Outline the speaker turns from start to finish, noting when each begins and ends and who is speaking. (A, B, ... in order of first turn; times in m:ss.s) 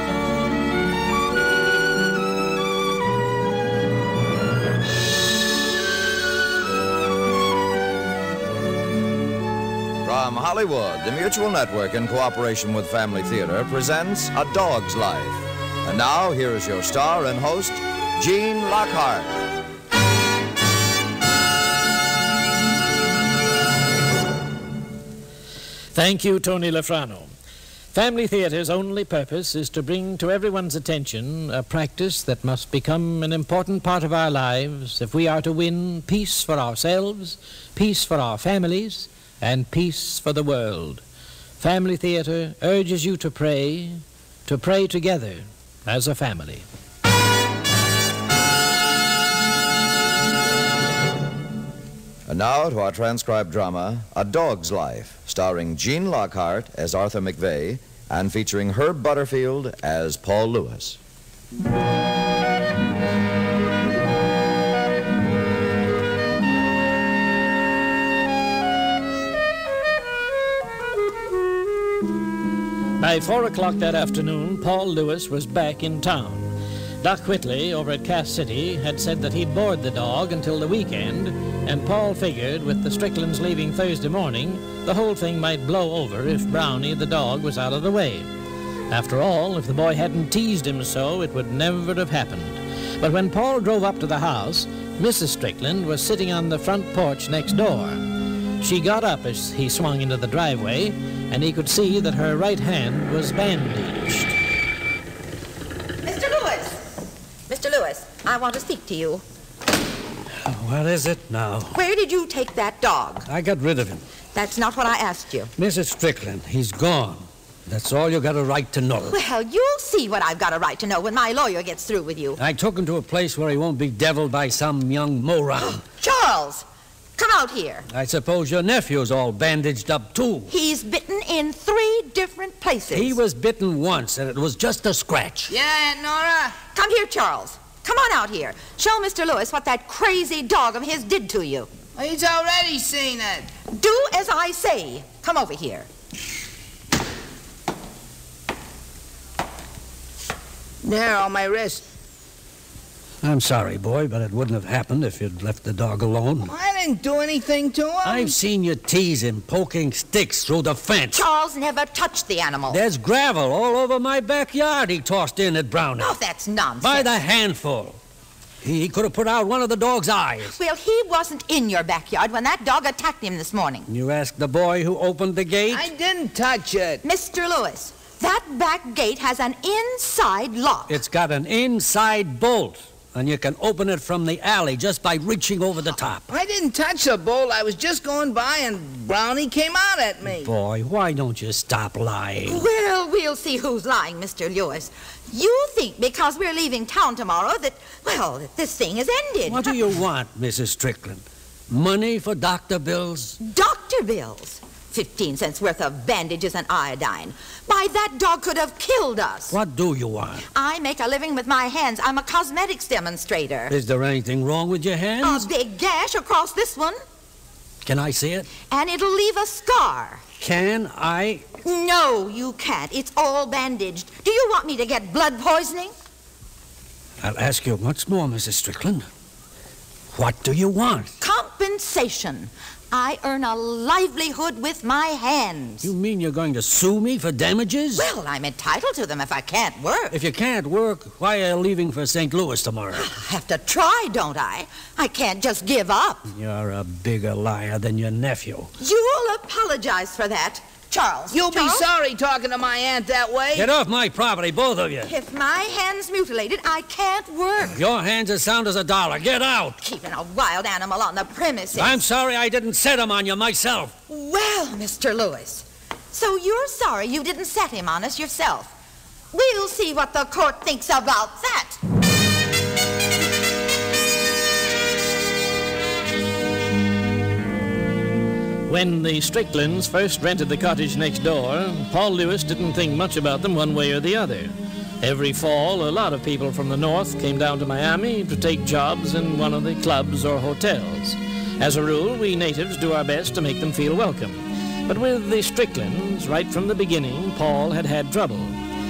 0:10.0-0:19.4 A
0:26.0-0:27.3 B
0:27.9-0:41.0 B
0:41.6-0:46.7 B
0:52.3-1:01.0 A
1:13.0-1:28.3 B
1:28.9-1:38.1 B
1:38.6-1:44.4 B
1:46.0-1:46.8 C
1:47.5-1:49.2 C
1:50.4-1:51.8 D
1:51.7-1:53.3 C
1:53.3-1:54.0 D
1:54.3-1:55.5 C
1:55.6-1:59.2 D
1:59.0-2:02.4 C
2:02.4-2:05.8 D
2:05.6-2:06.7 C
2:07.2-2:07.9 C
2:07.9-2:10.5 D
2:10.5-2:13.2 C
2:12.9-2:15.5 D
2:15.5-2:16.6 E
2:16.7-2:21.7 C
2:22.0-2:23.5 E
2:23.7-2:25.9 C
2:30.8-2:31.8 E
2:33.2-2:36.5 D
2:36.4-2:38.4 E
2:38.0-2:41.2 D
2:41.1-2:42.8 C
2:42.7-2:46.2 D
2:46.0-2:47.1 C
2:46.8-2:48.0 D
2:48.6-2:50.6 D
2:50.4-2:53.9 C
2:53.9-2:55.9 D
2:55.7-2:57.0 E
2:57.0-3:01.0 C
3:00.9-3:06.3 D
3:06.3-3:10.5 E
3:10.3-3:12.6 D
3:12.4-3:19.7 C
3:19.4-3:23.4 D
3:23.4-3:29.6 C
3:29.5-3:30.4 D
3:30.5-3:33.7 C
3:33.7-3:35.5 D
3:35.2-3:37.0 C
3:37.8-3:38.5 D
3:38.7-3:40.2 C
3:40.4-3:41.5 D
3:41.6-3:45.9 C
3:47.2-3:49.1 D
3:50.1-3:51.1 D
3:51.2-3:55.9 C
3:55.8-3:58.0 D
3:58.0-4:00.2 C
4:00.1-4:03.1 D
4:02.9-4:06.3 C
4:06.3-4:08.7 D
4:08.8-4:11.9 C
4:11.3-4:13.7 E
4:13.5-4:15.1 D
4:15.0-4:17.8 C
4:17.7-4:19.8 D
4:19.8-4:22.0 C
4:21.8-4:24.0 D
4:24.1-4:28.7 C
4:29.3-4:31.8 C
4:38.7-4:58.6 B